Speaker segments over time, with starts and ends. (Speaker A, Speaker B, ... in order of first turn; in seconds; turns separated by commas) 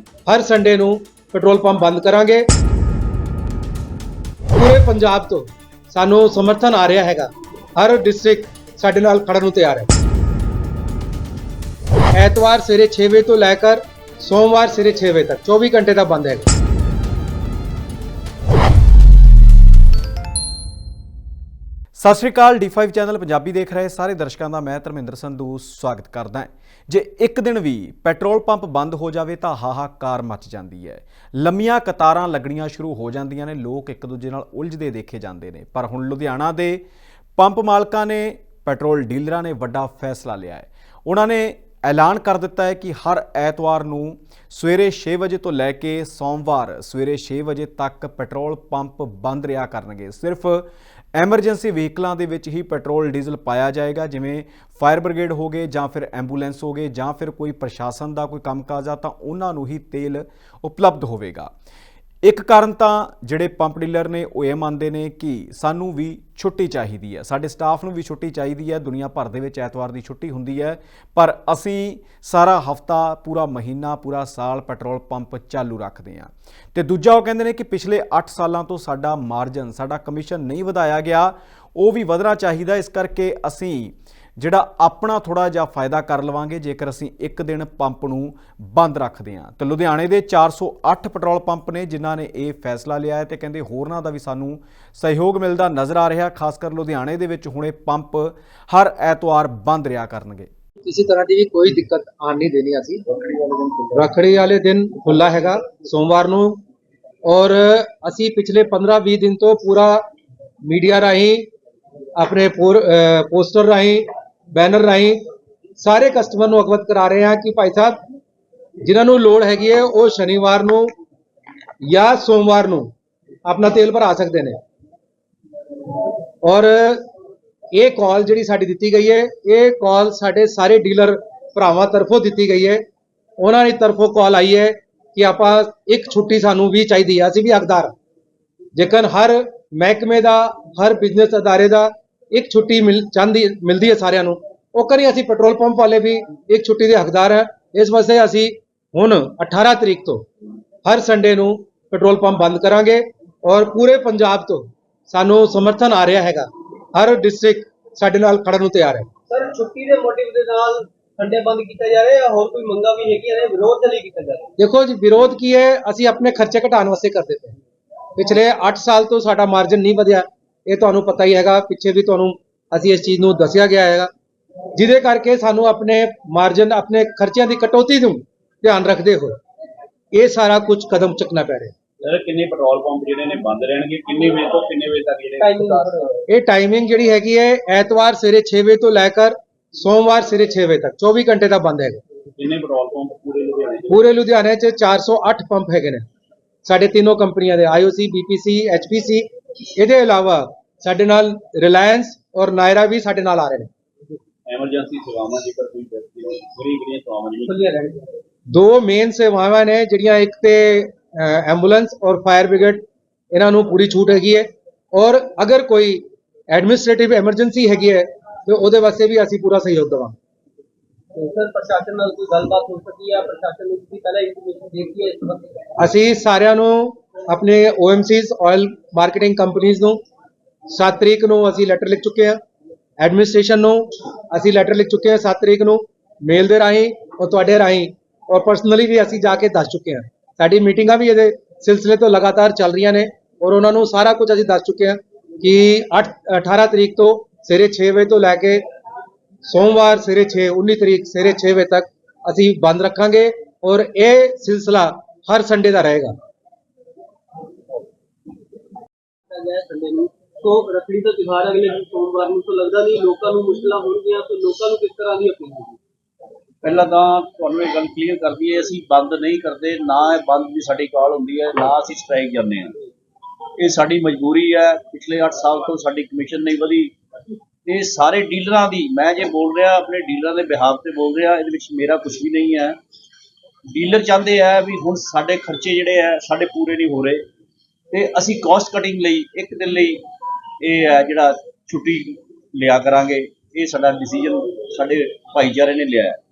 Speaker A: 0.3-2.5, Speaker A: 4.5-9.9, Speaker A: 12.1-16.5, Speaker B: 22.0-36.8, Speaker B: 37.4-61.5, Speaker B: 62.2-100.5, Speaker A: 100.8-103.0, Speaker A: 103.9-106.6, Speaker A: 107.2-110.0, Speaker A: 110.7-111.5, Speaker A: 112.2-115.2, Speaker A: 115.8-118.0, Speaker A: 118.8-120.9, Speaker A: 121.8-122.9, Speaker A: 123.5-124.6, Speaker A: 126.4-127.0, Speaker A: 127.7-132.8, Speaker A: 133.4-137.9, Speaker A: 138.8-150.2, Speaker A: 150.8-159.1, Speaker C: 159.3-164.4, Speaker A: 164.6-167.6, Speaker A: 168.2-174.1, Speaker A: 174.8-179.3, Speaker A: 180.1-181.7, Speaker D: 182.0-186.1, Speaker C: 185.4-185.9, Speaker A: 186.3-192.0, Speaker D: 192.4-194.0, Speaker A: 193.9-196.0, Speaker A: 196.7-203.7, Speaker D: 204.5-207.6, Speaker A: 208.5-220.2, Speaker C: 221.3-225.4, Speaker A: 225.8-230.0, Speaker A: 230.7-232.4, Speaker A: 233.0-248.6, Speaker A: 249.5-256.1, Speaker C: 259.5-260.1, Speaker C: 260.7-265.7, Speaker D: 266.6-272.8, Speaker D: 273.6-276.9, Speaker D: 277.7-282.8, Speaker D: 283.7-287.2, Speaker D: 287.9-290.0, Speaker D: 290.6-296.2